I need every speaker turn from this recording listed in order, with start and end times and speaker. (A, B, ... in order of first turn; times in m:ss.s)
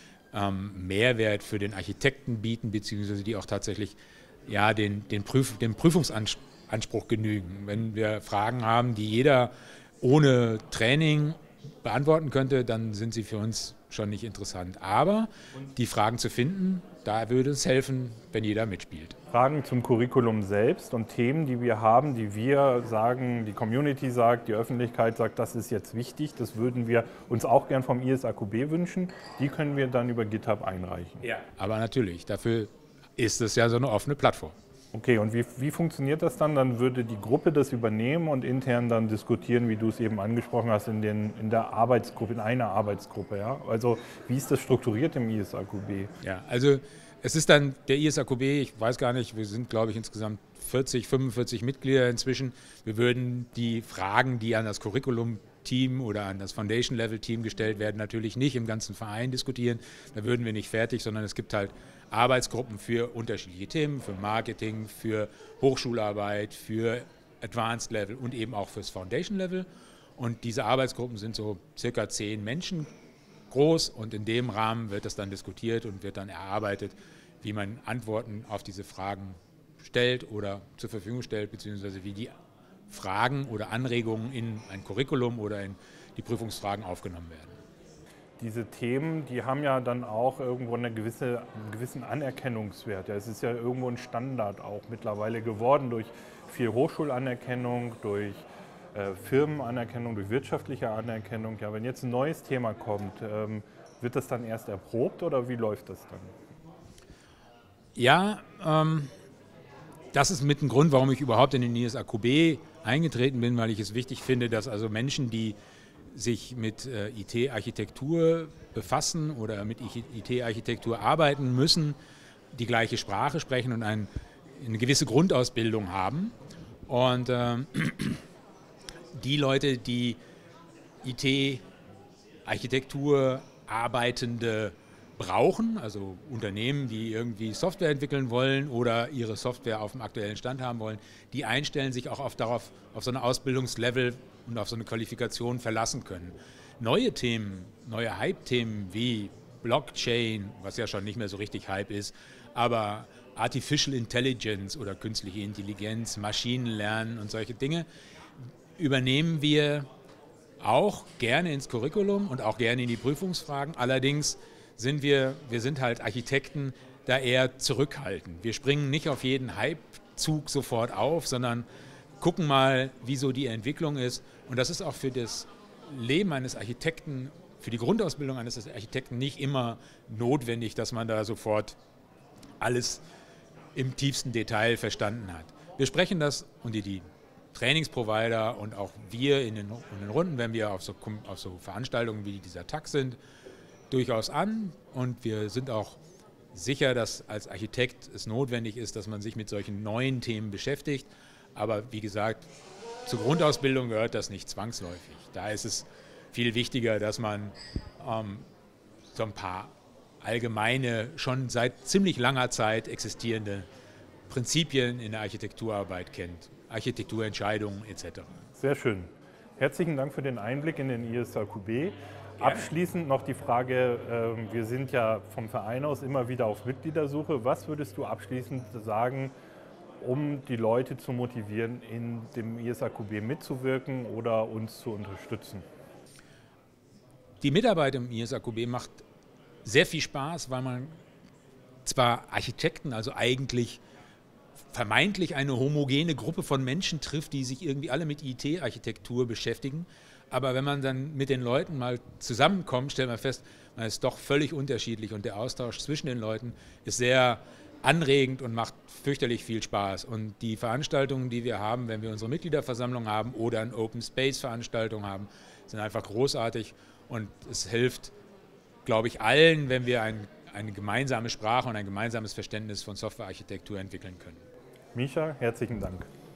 0:00.3-0:19.2 A
0:19.3-0:31.2 B
0:31.2-0:34.5 A
0:34.9-0:46.1 B
0:46.2-1:12.9 A
1:13.5-1:22.3 A
1:22.9-1:27.6 A
1:28.4-1:46.3 B
1:48.0-1:49.1 A
1:50.1-1:55.6 A
1:56.1-2:02.0 A
2:02.5-2:06.3 A
2:06.9-2:08.2 A
2:09.1-2:10.2 A
2:11.0-2:11.6 A
2:12.5-2:37.9 A
2:38.8-2:39.9 A
2:40.6-2:51.7 A
2:52.2-3:01.8 A
3:02.6-3:03.0 A
3:03.8-3:13.2 A
3:13.9-3:16.0 A
3:16.5-3:22.5 A
3:23.0-3:28.4 A
3:29.1-3:33.7 A
3:34.3-3:38.3 A
3:38.6-3:49.3 B
3:42.4-3:42.7 A
3:50.0-3:55.6 B
3:57.4-3:59.0 A
3:59.6-4:01.0 A
4:01.9-4:03.8 A
4:04.7-4:28.1 A
4:28.9-4:34.4 A
4:35.0-4:36.1 B